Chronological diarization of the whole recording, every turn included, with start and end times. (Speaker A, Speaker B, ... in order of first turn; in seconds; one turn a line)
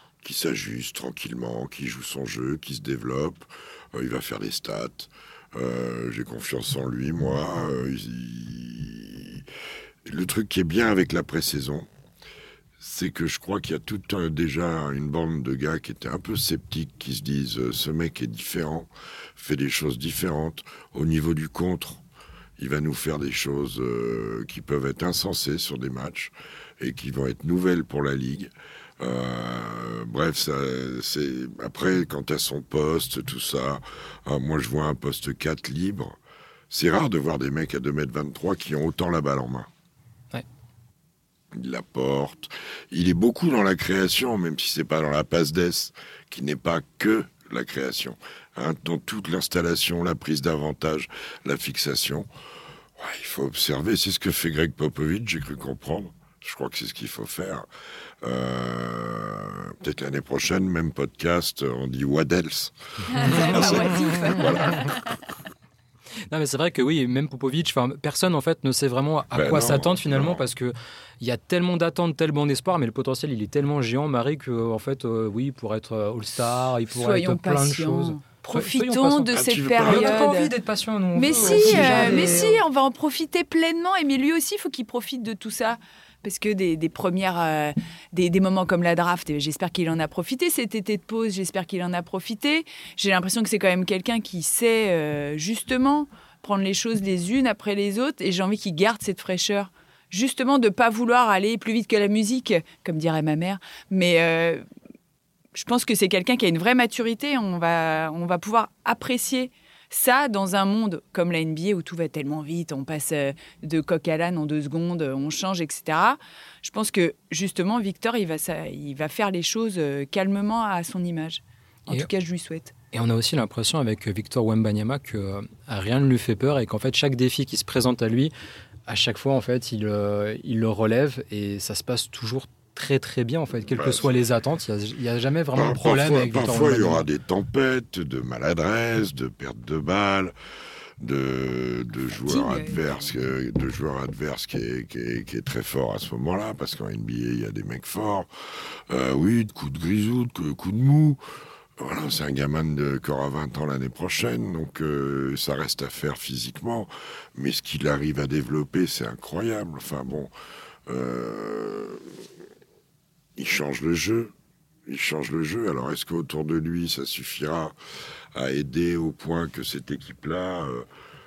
Speaker A: 0.2-9.5
Speaker A: 10.0-11.9
Speaker A: 12.8-22.0
Speaker A: 22.6-36.1
Speaker A: 36.7-39.7
Speaker A: 41.5-52.3
Speaker A: 53.0-57.7
Speaker A: 58.2-65.0
Speaker B: 63.1-65.2
Speaker C: 63.1-64.9
Speaker C: 66.3-79.3
Speaker A: 69.3-70.4
Speaker B: 76.9-80.5
Speaker A: 79.3-80.3
Speaker C: 79.8-82.6
Speaker B: 81.1-104.6
Speaker A: 81.3-82.4
Speaker B: 105.5-122.7
Speaker C: 122.9-128.3
Speaker C: 128.9-137.1
Speaker A: 133.7-134.1
Speaker A: 135.5-140.3
Speaker A: 141.0-151.2
Speaker B: 142.2-143.1
Speaker A: 151.8-160.3
Speaker A: 160.9-162.3
Speaker A: 163.3-164.3
Speaker A: 164.8-167.7
Speaker A: 168.3-170.9